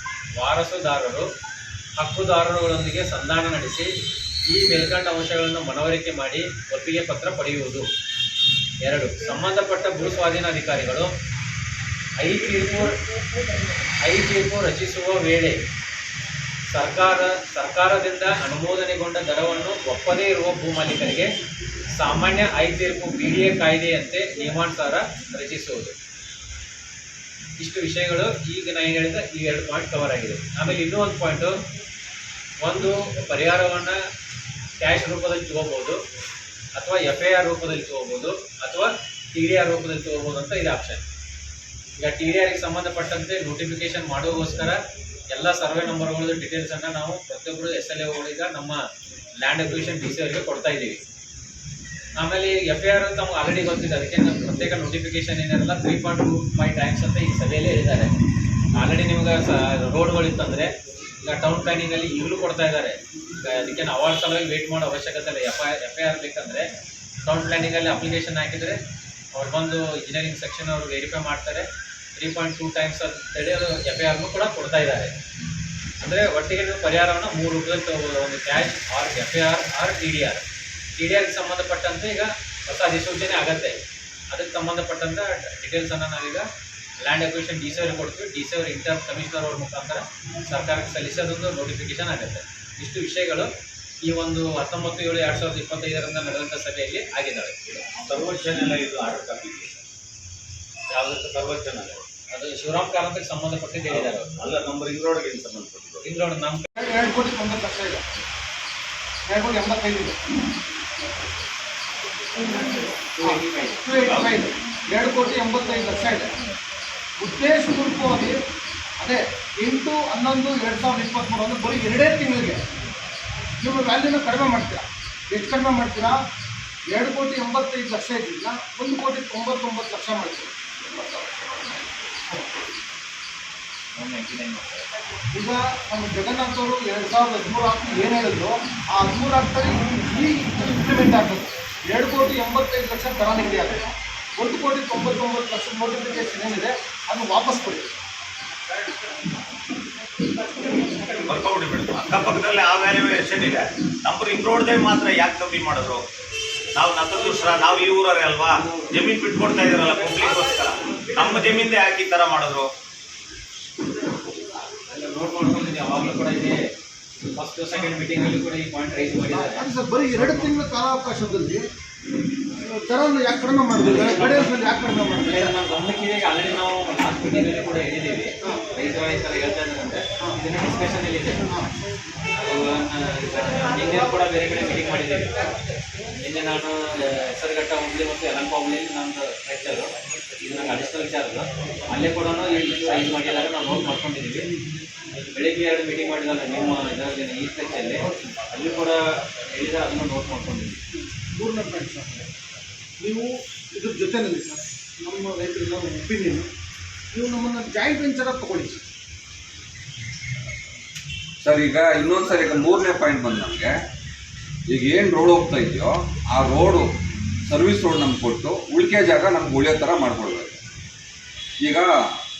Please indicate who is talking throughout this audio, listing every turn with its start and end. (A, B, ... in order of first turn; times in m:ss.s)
0:00.4-0:01.3 A
0:02.0-0:03.9 A
0:04.5-0:07.9 A
0:08.8-0:11.1 A
0:12.2-0:13.0 A
0:14.0-0:15.6 A
0:16.7-0:21.3 A
0:21.9-0:25.9 A
0:27.6-0:31.5 A
0:32.6-0:34.0 A
0:34.8-0:36.0 A
0:36.8-0:41.0 A
0:42.0-0:44.8 A
0:45.3-0:48.8 A
0:49.4-0:51.0 A
0:52.2-0:58.1 A
0:58.8-1:00.7 A
1:01.2-1:06.7 A
1:07.2-1:08.8 A
1:09.3-1:15.2 A
1:16.0-1:20.4 A
1:21.0-1:23.8 A
1:24.3-1:26.4 A
1:27.0-1:33.5 A
1:34.0-1:37.5 A
1:37.7-1:39.8 B
1:41.0-1:42.0 B
1:42.3-1:44.3 A
1:43.9-1:46.0 B
1:46.0-1:46.7 A
1:46.8-1:48.0 C
1:49.3-1:50.2 C
1:52.4-1:53.8 A
1:53.2-1:56.3 C
1:54.0-1:54.3 B
1:57.2-1:58.4 C
1:59.0-2:02.6 C
2:03.6-2:06.2 C
2:06.9-2:10.5 C
2:13.9-2:14.9 A
2:15.3-2:28.0 C
2:31.3-2:36.0 B
2:36.8-2:42.7 B
2:44.8-2:46.6 A
2:47.2-2:50.5 A
2:49.4-2:51.6 C
2:52.6-2:55.5 C
2:53.8-2:54.6 A
2:55.2-3:01.4 A
3:02.4-3:05.5 A
3:06.2-3:14.5 A
3:15.2-3:20.8 A
3:21.0-3:22.2 C
3:23.0-3:26.5 C
3:27.1-3:28.8 C
3:31.4-3:33.7 D
3:34.7-3:36.9 D
3:37.5-3:40.6 D
3:41.6-3:41.9 D